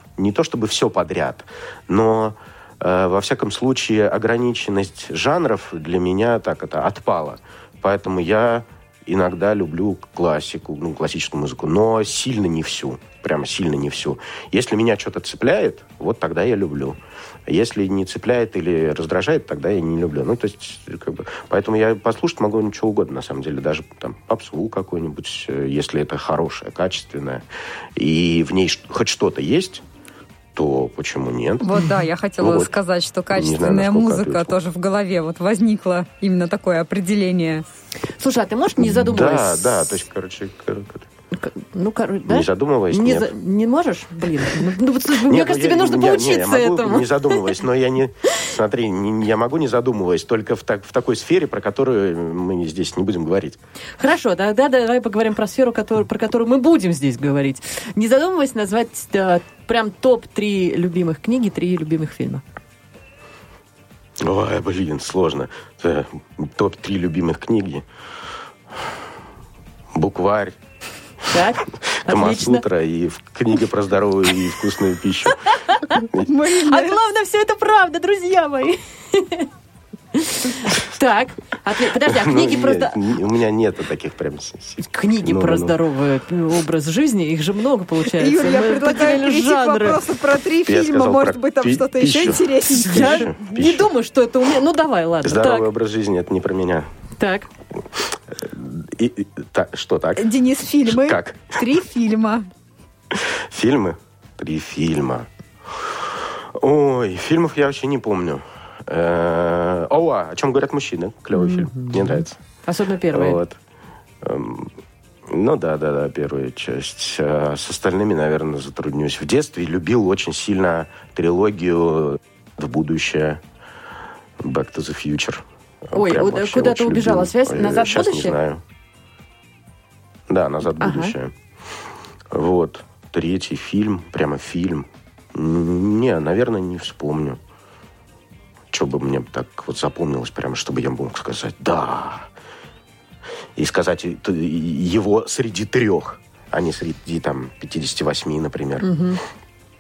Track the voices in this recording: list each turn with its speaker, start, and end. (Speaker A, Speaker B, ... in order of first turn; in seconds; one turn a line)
Speaker A: 0.2-29.8
Speaker A: 30.6-31.8
Speaker B: 31.6-37.6
Speaker A: 32.4-32.7
Speaker A: 33.3-34.6
Speaker C: 38.2-40.0
Speaker A: 38.8-41.1
Speaker C: 41.4-47.4
Speaker A: 42.3-43.3
Speaker A: 45.1-53.6
Speaker C: 54.0-62.4
Speaker A: 64.2-67.8
Speaker A: 69.9-70.6
Speaker C: 71.3-72.6
Speaker A: 71.7-75.4
Speaker C: 75.5-79.5
Speaker A: 76.0-76.3
Speaker B: 76.2-77.0
Speaker C: 80.2-83.0
Speaker A: 82.0-85.8
Speaker C: 84.8-90.0
Speaker B: 88.1-93.3
Speaker A: 90.7-93.9
Speaker C: 92.7-95.7
Speaker A: 95.2-96.9
Speaker C: 97.2-97.5
Speaker A: 98.0-100.3
Speaker B: 100.2-102.5
Speaker A: 100.8-101.7
Speaker A: 103.1-112.4
Speaker C: 111.3-113.4
Speaker A: 113.1-113.6
Speaker A: 114.2-114.7
Speaker A: 115.3-123.4
Speaker A: 124.4-128.6
Speaker C: 126.0-128.4
Speaker A: 130.3-131.3
Speaker C: 130.8-131.2
Speaker A: 132.3-137.4
Speaker A: 138.7-142.3
Speaker A: 143.6-148.9
Speaker C: 148.8-149.2